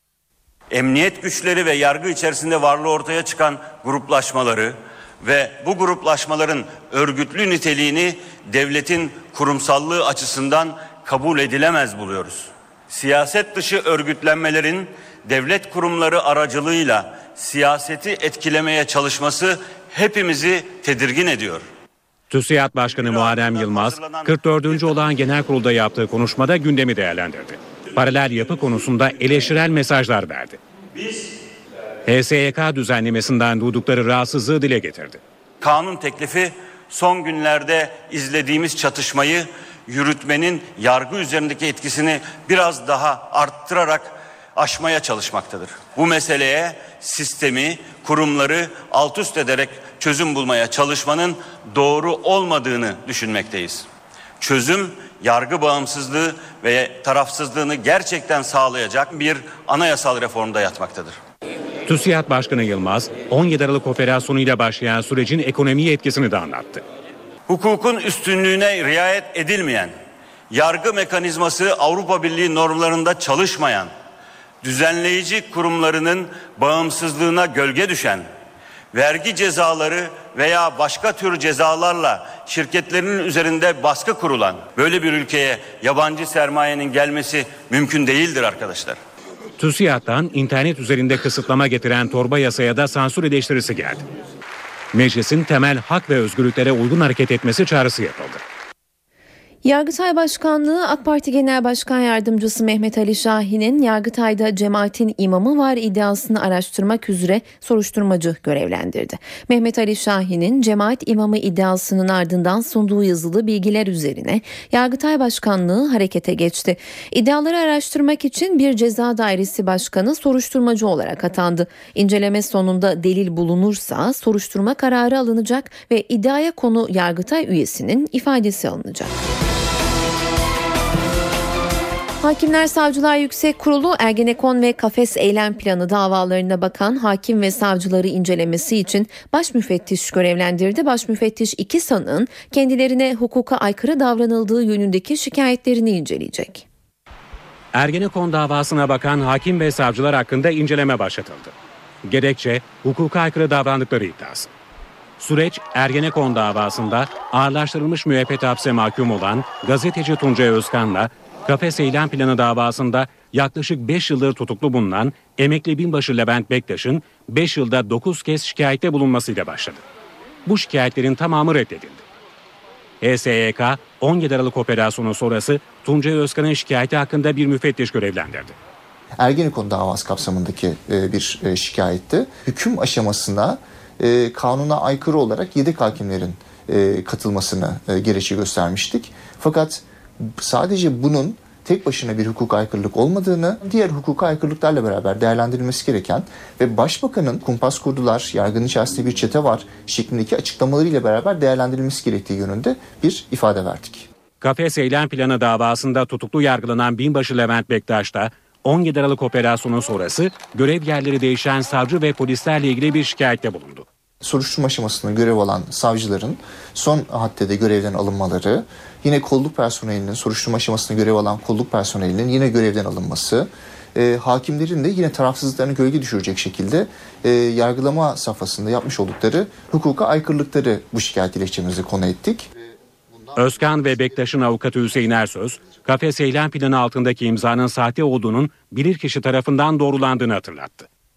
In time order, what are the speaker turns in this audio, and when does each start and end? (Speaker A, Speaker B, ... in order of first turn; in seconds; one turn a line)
Speaker A: 0.7-21.6
Speaker B: 22.3-30.6
Speaker A: 22.8-24.9
Speaker A: 31.0-31.2
Speaker B: 32.1-35.2
Speaker A: 35.6-53.9
Speaker A: 54.4-61.2
Speaker B: 61.9-66.8
Speaker A: 67.5-70.0
Speaker A: 70.5-73.9
Speaker A: 74.6-78.3
Speaker A: 78.9-89.0
Speaker B: 89.6-94.0
Speaker B: 94.9-98.4
Speaker C: 99.6-129.2
Speaker C: 132.2-146.7
Speaker B: 147.7-151.5
Speaker B: 152.0-154.5
Speaker B: 155.2-169.8
Speaker B: 170.5-172.0
Speaker B: 173.0-178.6
Speaker D: 179.2-204.1
Speaker B: 204.4-213.9
Speaker D: 214.2-232.5
Speaker B: 233.3-240.9